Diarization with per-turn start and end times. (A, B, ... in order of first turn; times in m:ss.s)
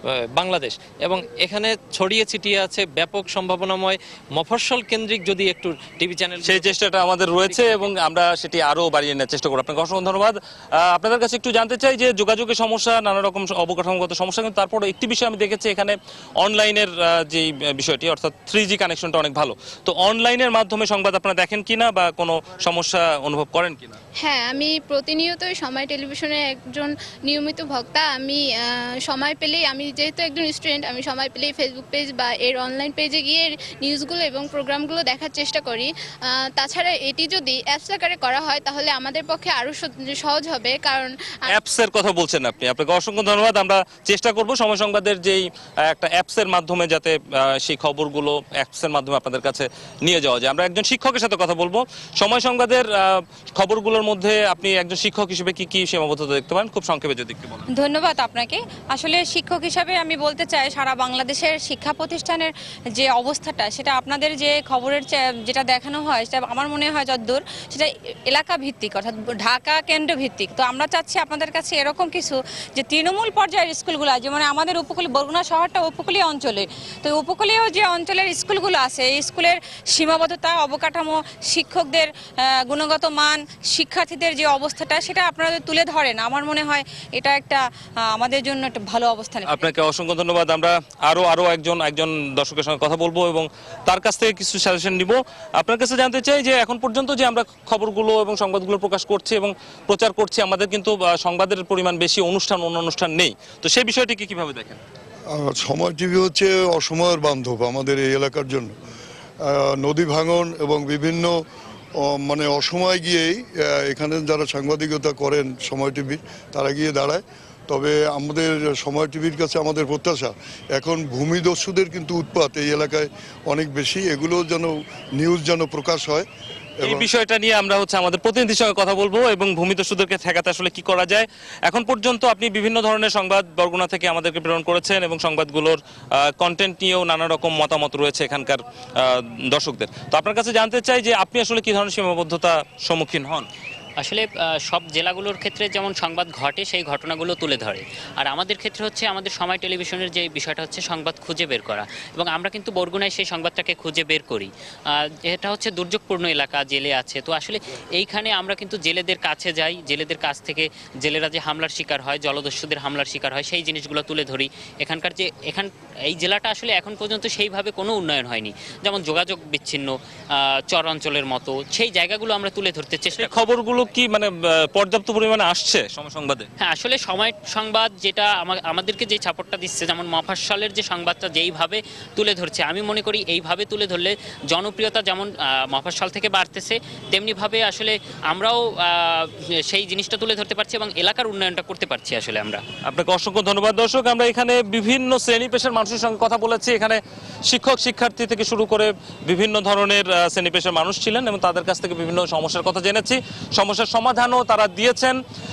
0:00.4-0:06.7 A
0:06.4-0:24.0 B
0:07.5-0:07.8 A
0:24.2-0:41.6 C
0:41.5-0:57.6 B
0:57.7-1:29.6 D
1:29.4-1:44.8 B
1:45.3-1:48.7 E
1:49.4-1:51.4 E
1:52.0-2:06.2 E
2:06.8-2:07.1 E
2:06.8-2:15.8 B
2:16.4-2:23.5 B
2:24.0-2:34.5 F
2:35.2-2:50.0 F
2:50.6-2:53.3 F
2:53.1-2:56.5 B
2:56.6-3:12.6 F
3:12.8-3:25.2 B